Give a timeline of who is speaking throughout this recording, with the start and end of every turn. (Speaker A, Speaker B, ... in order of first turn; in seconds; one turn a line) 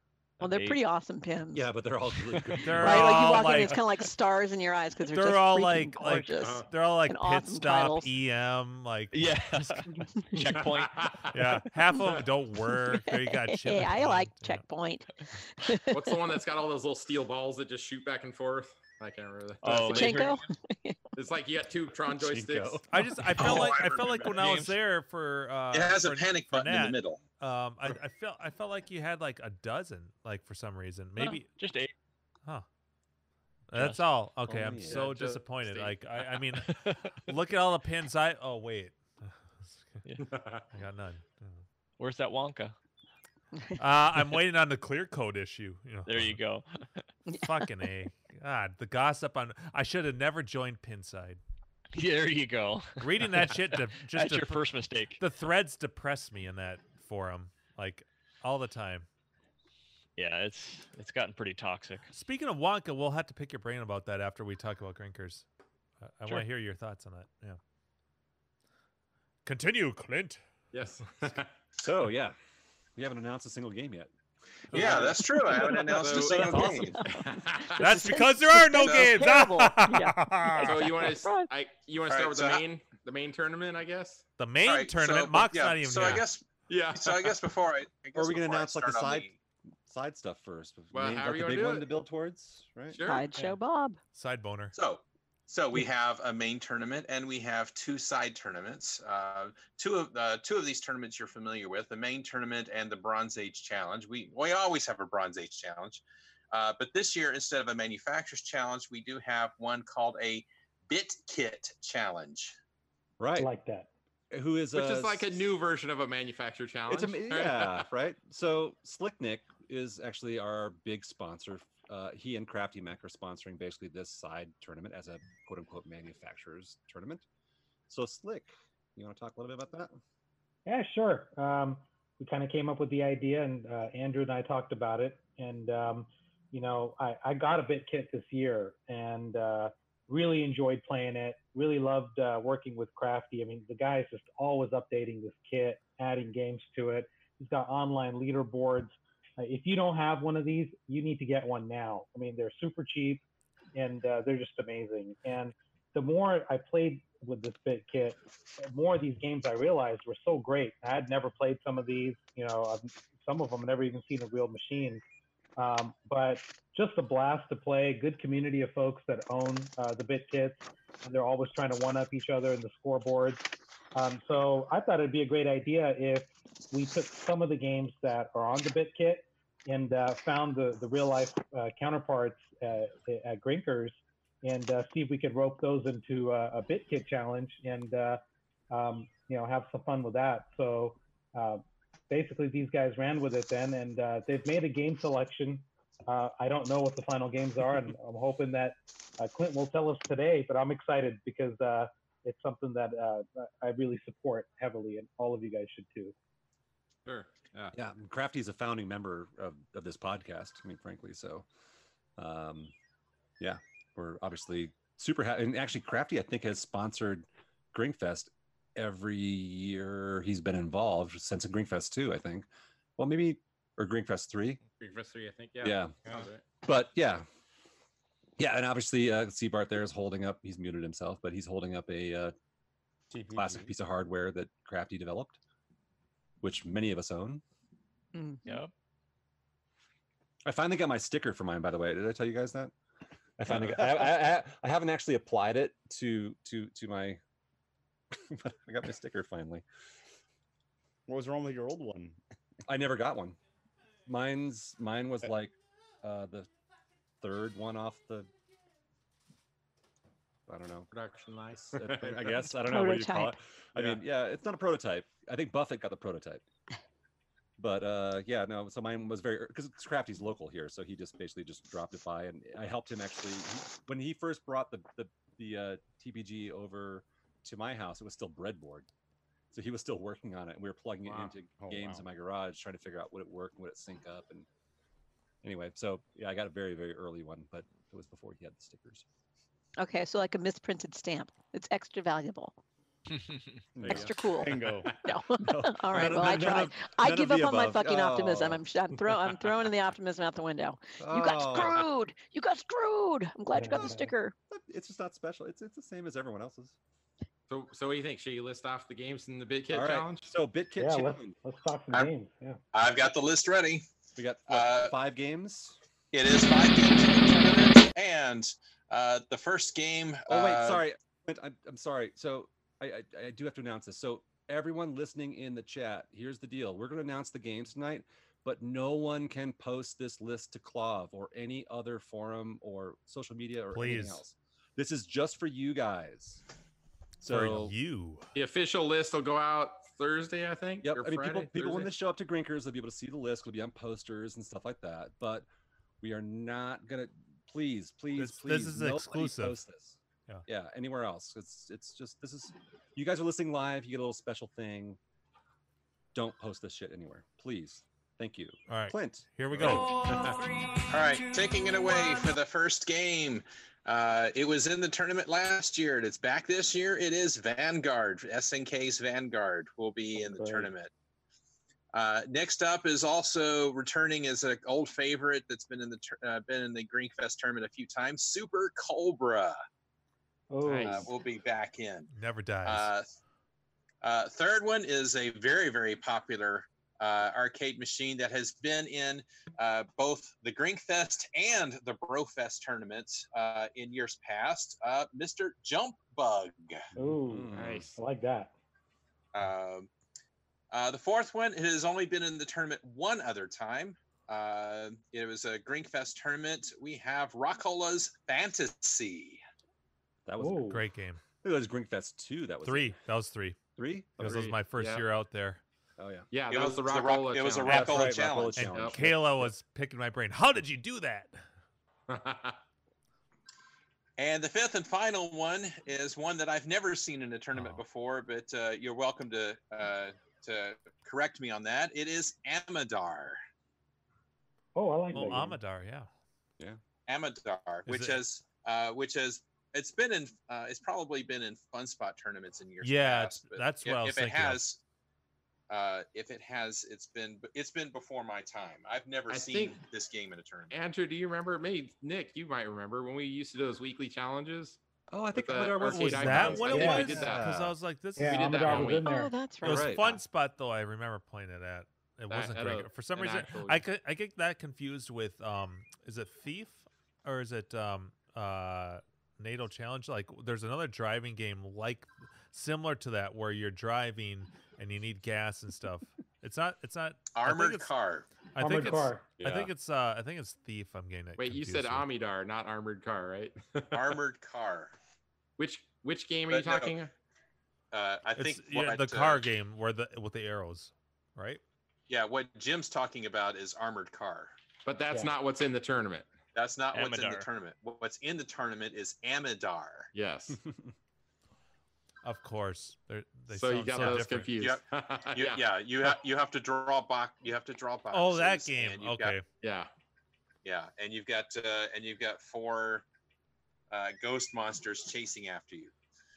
Speaker A: 0.4-0.8
Speaker B: 0.4-1.7
Speaker C: 1.5-3.6
Speaker D: 2.6-3.9
Speaker B: 2.8-8.1
Speaker D: 5.1-10.0
Speaker E: 6.3-6.7
Speaker A: 9.1-11.1
Speaker E: 10.3-12.3
Speaker D: 11.3-14.6
Speaker B: 12.9-16.1
Speaker E: 15.9-20.4
Speaker A: 19.6-20.4
Speaker B: 19.9-21.0
Speaker E: 21.1-22.8
Speaker C: 22.1-23.3
Speaker D: 22.9-31.5
Speaker F: 23.4-24.6
Speaker A: 23.4-24.8
Speaker F: 25.7-27.2
Speaker A: 31.2-31.9
Speaker D: 33.7-40.0
Speaker A: 33.7-34.0
Speaker C: 34.5-35.2
Speaker E: 34.9-36.0
Speaker A: 36.5-37.3
Speaker E: 40.2-40.6
Speaker D: 40.7-41.6
Speaker A: 42.0-42.7
Speaker B: 43.5-43.8
Speaker D: 43.8-46.4
Speaker A: 46.0-46.8
Speaker B: 47.3-47.9
Speaker D: 47.4-51.4
Speaker A: 51.9-55.2
Speaker D: 53.0-54.6
Speaker D: 55.2-59.0
Speaker A: 60.2-62.1
Speaker D: 62.1-65.4
Speaker D: 66.1-67.6
Speaker D: 69.4-70.4
Speaker E: 70.7-71.5
Speaker C: 71.8-72.4
Speaker C: 73.0-74.1
Speaker C: 74.7-75.1
Speaker F: 74.7-77.0
Speaker E: 74.7-78.1
Speaker B: 76.3-77.1
Speaker C: 76.4-76.9
Speaker B: 77.8-81.5
Speaker D: 77.8-80.9
Speaker F: 78.8-79.2
Speaker E: 80.5-84.2
Speaker F: 82.1-82.6
Speaker D: 84.4-86.2
Speaker F: 84.6-89.3
Speaker E: 86.7-87.4
Speaker C: 88.1-89.3
Speaker C: 89.8-93.0
Speaker E: 90.9-91.9
Speaker E: 92.9-93.3
Speaker B: 93.0-94.0
Speaker D: 94.1-94.7
Speaker F: 94.7-112.5
Speaker C: 113.2-113.5
Speaker G: 113.4-113.9
Speaker C: 114.3-115.5
Speaker E: 114.7-117.9
Speaker C: 116.9-127.2
Speaker C: 127.9-130.0
Speaker G: 130.7-153.2
Speaker G: 153.7-165.0
Speaker G: 165.6-188.2
Speaker G: 188.7-206.1
Speaker E: 207.1-207.7
Speaker C: 207.7-211.5
Speaker C: 212.2-212.7
Speaker C: 213.4-222.5
Speaker C: 223.0-224.6
Speaker E: 224.8-226.4
Speaker C: 225.6-226.0
Speaker C: 226.6-227.2
Speaker C: 228.4-232.3
Speaker H: 233.1-233.7
Speaker C: 233.3-235.4
Speaker C: 236.4-237.4
Speaker B: 238.1-238.5
Speaker A: 238.4-238.7
Speaker C: 240.4-242.7
Speaker C: 243.4-247.2
Speaker C: 248.1-249.6
Speaker H: 251.1-252.2
Speaker C: 252.7-253.4
Speaker C: 254.1-256.5
Speaker C: 257.2-258.3
Speaker C: 260.5-260.9
Speaker E: 260.9-262.4
Speaker C: 261.5-266.4
Speaker B: 262.5-263.3
Speaker C: 267.6-278.9
Speaker C: 279.5-284.5
Speaker H: 281.5-282.0
Speaker C: 285.4-289.0
Speaker B: 289.8-292.6
Speaker C: 293.8-294.5
Speaker H: 293.9-294.9
Speaker B: 293.9-304.3
Speaker C: 295.4-298.6
Speaker C: 301.0-301.9
Speaker G: 303.5-304.1
Speaker C: 304.5-306.8
Speaker E: 307.5-310.3
Speaker C: 309.7-311.4
Speaker G: 310.8-312.6
Speaker F: 312.7-313.9
Speaker C: 314.2-315.8
Speaker F: 314.5-314.9
Speaker F: 316.1-320.8
Speaker C: 320.3-336.4
Speaker D: 333.7-334.2
Speaker D: 337.2-338.3
Speaker C: 337.2-337.7
Speaker E: 338.3-341.9
Speaker C: 340.8-345.5
Speaker C: 346.0-355.0
Speaker D: 348.1-349.6
Speaker C: 356.1-359.9
Speaker D: 358.7-359.9
Speaker E: 360.1-360.4
Speaker F: 360.9-370.9
Speaker G: 370.2-370.7
Speaker F: 371.9-379.6
Speaker G: 380.5-381.1
Speaker E: 380.6-381.1
Speaker F: 380.9-382.1
Speaker D: 382.1-382.9
Speaker F: 382.6-383.1
Speaker F: 384.0-396.9
Speaker C: 396.9-397.9
Speaker G: 397.0-398.5
Speaker H: 397.6-397.9
Speaker F: 399.3-399.9
Speaker F: 400.7-409.4
Speaker C: 410.2-410.8
Speaker G: 410.4-410.8
Speaker D: 410.6-411.2
Speaker C: 411.4-413.0
Speaker D: 412.6-413.6
Speaker C: 413.8-414.6
Speaker D: 414.2-415.6
Speaker E: 414.2-415.1
Speaker C: 416.0-416.3
Speaker E: 416.3-418.1
Speaker F: 416.5-418.7
Speaker C: 417.6-419.5
Speaker D: 418.5-421.4
Speaker E: 418.7-419.0
Speaker E: 422.1-422.6
Speaker F: 424.2-433.4
Speaker D: 427.5-427.8
Speaker G: 434.7-435.6
Speaker D: 435.1-436.1
Speaker F: 437.1-444.8
Speaker D: 437.9-438.2
Speaker D: 442.8-444.6
Speaker F: 445.7-450.7
Speaker E: 449.3-449.8
Speaker E: 450.7-454.8
Speaker C: 455.1-457.7
Speaker E: 455.3-457.5
Speaker D: 455.8-459.0
Speaker G: 456.7-457.2
Speaker G: 458.1-459.3
Speaker E: 458.2-459.1
Speaker B: 459.0-460.0
Speaker D: 459.6-477.9
Speaker C: 459.6-460.2
Speaker E: 462.3-463.9
Speaker F: 477.3-478.3
Speaker D: 478.5-482.1
Speaker G: 478.6-479.3
Speaker E: 479.4-479.7
Speaker E: 481.4-484.2
Speaker F: 483.9-484.9
Speaker E: 485.6-487.1
Speaker F: 486.5-486.9
Speaker F: 487.9-489.4
Speaker D: 488.4-491.6
Speaker F: 492.1-494.5
Speaker E: 494.9-496.3
Speaker F: 496.5-500.1
Speaker A: 496.9-497.4
Speaker E: 500.1-500.6
Speaker C: 500.6-500.9
Speaker D: 502.2-504.5
Speaker E: 503.5-505.6
Speaker F: 504.0-509.4
Speaker D: 508.1-509.4
Speaker E: 509.6-509.9
Speaker F: 510.6-513.0
Speaker F: 513.9-515.9